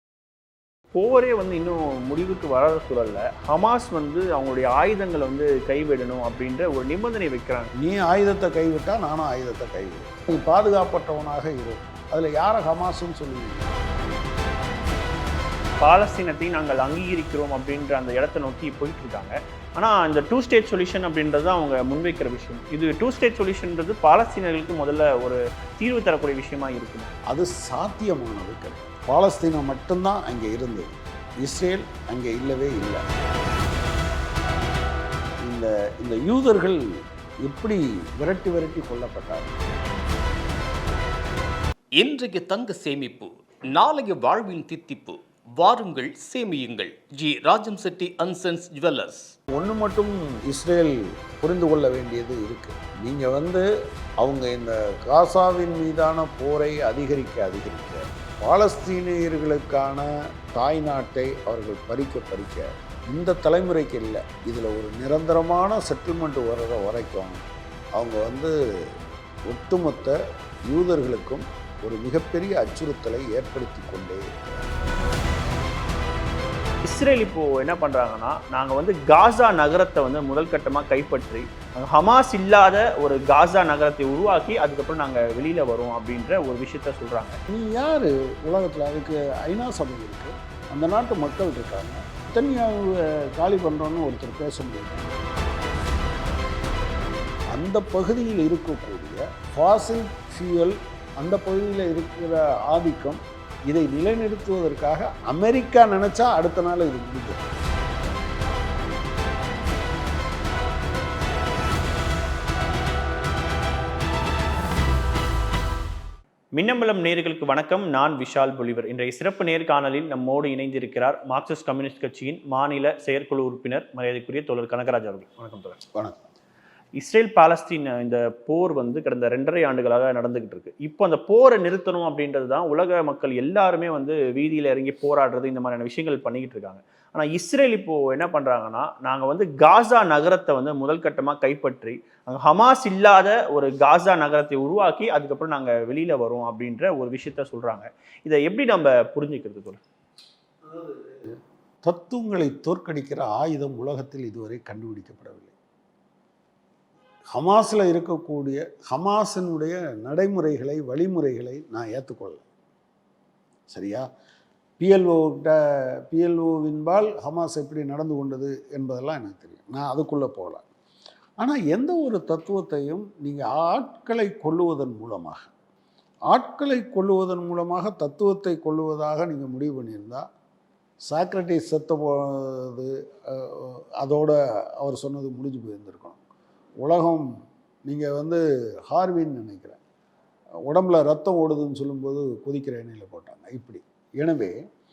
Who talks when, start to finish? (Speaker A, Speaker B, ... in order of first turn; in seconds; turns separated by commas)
Speaker A: 0.9-7.7, Speaker B: 7.8-13.7, Speaker A: 15.8-27.1, Speaker B: 27.3-33.0, Speaker B: 35.4-36.9, Speaker B: 37.4-39.5, Speaker C: 42.0-49.3, Speaker B: 49.5-53.7, Speaker B: 54.2-67.4, Speaker B: 68.0-68.9, Speaker B: 69.5-70.2, Speaker B: 70.7-74.7, Speaker A: 76.8-87.4, Speaker B: 87.5-95.1, Speaker B: 97.5-107.5, Speaker A: 116.5-125.8, Speaker A: 127.0-149.8, Speaker B: 150.7-155.5, Speaker B: 157.3-162.4, Speaker B: 163.7-164.1, Speaker B: 164.8-170.6, Speaker B: 171.4-175.5, Speaker B: 176.3-180.2, Speaker B: 181.1-186.2, Speaker B: 186.8-187.3, Speaker B: 187.9-189.8, Speaker B: 190.7-194.6